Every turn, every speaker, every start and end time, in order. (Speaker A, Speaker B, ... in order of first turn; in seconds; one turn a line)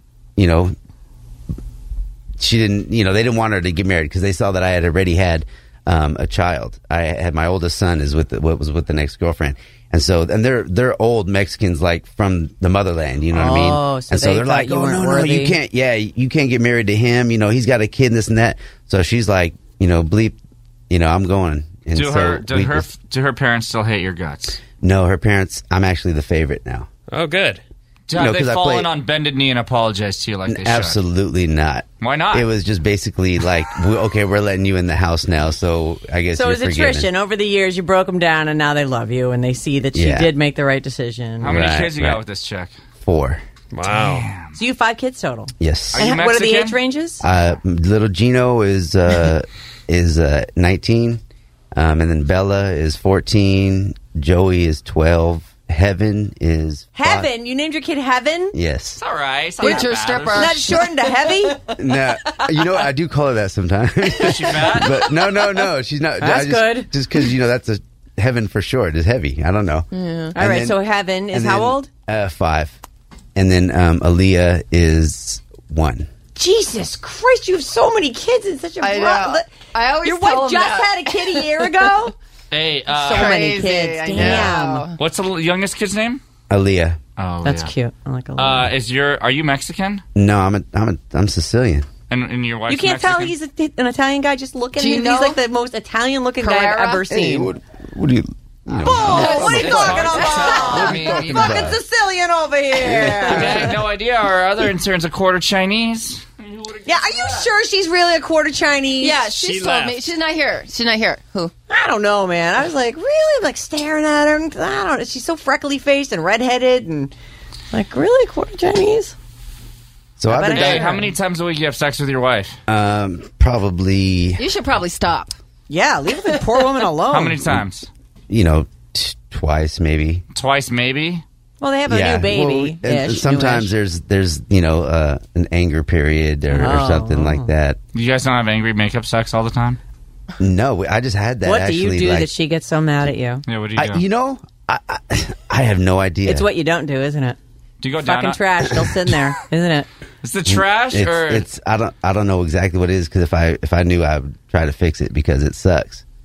Speaker A: 0.4-0.8
Speaker A: 2.4-20.4
Speaker B: 13.3-15.6
Speaker A: 20.9-22.9
Speaker C: 21.9-24.6
Speaker A: 24.8-26.9
Speaker D: 27.1-27.6
Speaker C: 28.1-31.0
Speaker A: 28.2-28.9
Speaker A: 30.5-37.1
Speaker C: 32.0-32.5
Speaker B: 36.3-41.6
Speaker A: 39.9-40.3
Speaker C: 41.4-42.7
Speaker A: 41.4-42.2
Speaker A: 43.0-43.4
Speaker D: 43.7-44.3
Speaker C: 43.9-44.6
Speaker B: 44.6-47.2
Speaker A: 45.6-46.1
Speaker C: 45.9-46.8
Speaker A: 47.2-51.2
Speaker A: 51.7-57.3
Speaker B: 57.0-58.6
Speaker A: 58.5-59.0
Speaker C: 59.0-60.8
Speaker B: 59.6-61.8
Speaker E: 59.6-61.5
Speaker A: 61.8-72.8
Speaker C: 64.2-65.0
Speaker B: 66.2-66.9
Speaker E: 69.9-70.4
Speaker B: 70.3-71.9
Speaker A: 73.3-76.1
Speaker B: 76.3-79.5
Speaker E: 78.8-81.8
Speaker B: 80.0-82.2
Speaker C: 82.5-83.5
Speaker B: 82.9-84.9
Speaker E: 83.1-85.0
Speaker C: 84.2-86.2
Speaker A: 86.5-87.0
Speaker C: 87.2-87.7
Speaker B: 87.4-88.7
Speaker C: 88.4-90.0
Speaker A: 90.2-91.9
Speaker C: 92.1-93.3
Speaker B: 92.7-97.5
Speaker E: 94.8-95.4
Speaker E: 96.4-97.0
Speaker A: 97.1-101.8
Speaker B: 98.8-103.7
Speaker C: 98.8-101.7
Speaker E: 99.0-101.0
Speaker A: 102.8-103.8
Speaker C: 103.1-107.5
Speaker B: 106.9-109.2
Speaker E: 109.0-111.5
Speaker D: 109.2-110.1
Speaker B: 111.7-117.1
Speaker B: 117.7-119.2
Speaker A: 120.2-121.1
Speaker B: 120.3-121.1
Speaker C: 120.5-122.6
Speaker A: 122.7-124.4
Speaker E: 124.4-125.4
Speaker B: 125.7-127.5
Speaker C: 127.1-127.9
Speaker A: 128.3-130.2
Speaker C: 130.3-131.2
Speaker B: 131.6-133.7
Speaker A: 131.9-137.8
Speaker B: 136.5-137.5
Speaker C: 137.9-139.8
Speaker A: 140.4-142.3
Speaker B: 141.4-143.4
Speaker C: 143.5-144.0
Speaker A: 143.8-146.5
Speaker B: 146.3-147.4
Speaker C: 147.8-148.4
Speaker B: 148.0-149.9
Speaker C: 150.2-151.5
Speaker A: 150.5-156.0